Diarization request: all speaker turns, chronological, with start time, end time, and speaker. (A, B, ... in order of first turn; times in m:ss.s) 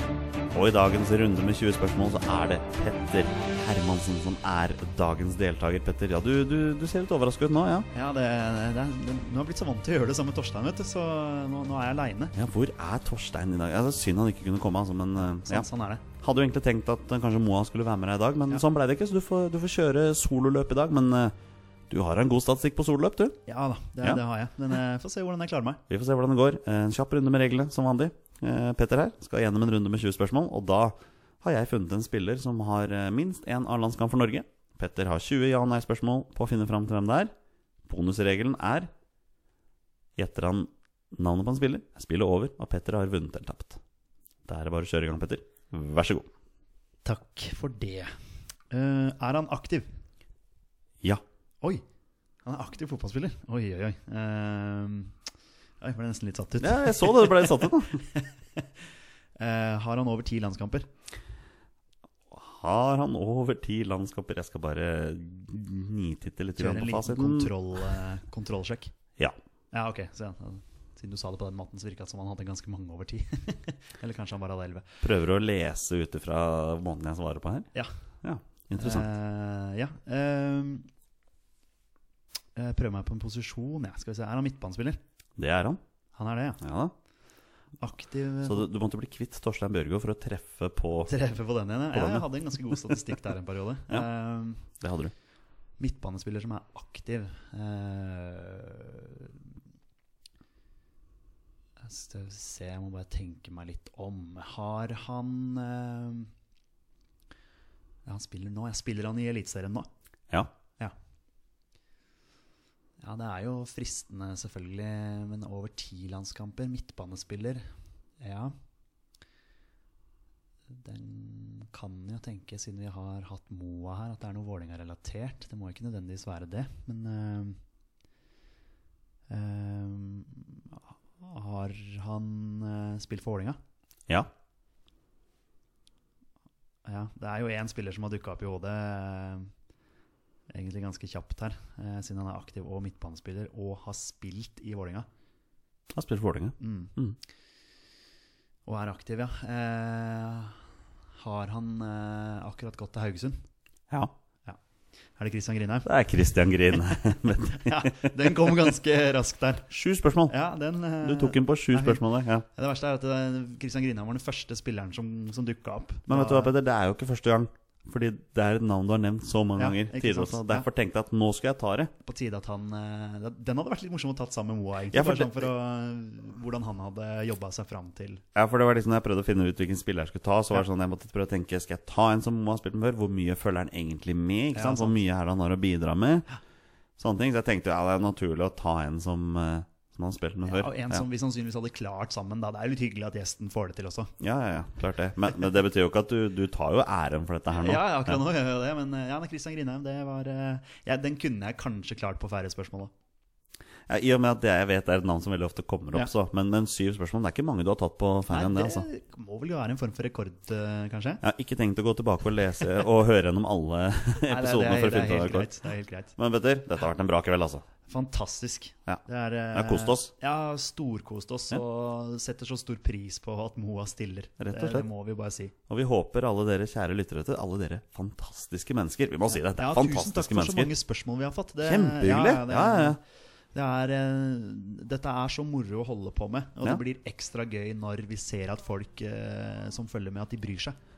0:00.5-0:07.9 A
0:07.9-0:12.3 B
0:12.3-0:15.7 A
0:15.4-0:16.0 B
0:16.2-0:21.3 A
0:21.9-0:23.4 A
0:23.5-0:25.8 B
0:25.9-0:37.3 A
0:37.8-0:38.9 A
0:40.2-0:43.8 A
0:44.4-0:46.3 A
0:47.0-0:48.1 B
0:48.7-0:49.9 B
0:52.4-0:55.1 B
0:55.8-0:57.5 B
0:56.6-0:58.0 A
0:59.4-1:00.9 B
1:02.3-1:07.5 A
1:06.6-1:08.9 B
1:09.7-1:14.8 B
1:15.0-1:17.7 A
1:18.2-1:19.1 A
1:18.8-1:20.9 B
1:22.6-1:25.0 B
1:25.4-1:25.8 A
1:26.1-1:26.6 B
1:26.6-1:26.9 A
1:27.8-1:28.6 B
1:28.4-1:31.1 A
1:31.1-1:34.6 B
1:31.9-1:32.8 A
1:34.7-1:35.1 A
1:35.8-1:39.4 B
1:41.8-1:46.3 B
1:48.0-1:49.9 B
1:53.0-1:57.6 B
1:58.2-1:58.5 B
2:00.7-2:07.6 B
2:09.3-2:13.6 B
2:16.8-2:19.5 B
2:20.5-2:25.1 B
2:25.9-2:27.2 A
2:26.6-2:26.9 B
2:28.6-2:30.6 B
2:31.2-2:33.4 B
2:35.2-2:35.9 B
2:35.8-2:38.5 A
2:37.5-2:39.7 B
2:39.7-2:40.3 A
2:40.3-2:46.5 B
2:41.0-2:42.4 A
2:46.1-2:51.9 A
2:49.6-2:50.6 B
2:52.0-2:58.2 B
2:54.9-2:55.5 A
2:58.3-3:06.2 A
3:04.5-3:05.0 B
3:07.0-3:11.0 A
3:10.4-3:14.1 B
3:14.2-3:18.2 A
3:17.6-3:22.9 B
3:23.9-3:28.8 A
3:28.3-3:31.2 B
3:31.2-3:35.6 A
3:34.3-3:36.1 B
3:36.2-3:37.6 A
3:37.9-3:45.5 B
3:38.9-3:40.1 A
3:44.4-3:44.9 A
3:45.7-3:50.7 A
3:49.5-3:53.0 B
3:51.6-3:53.0 A
3:53.5-4:00.8 B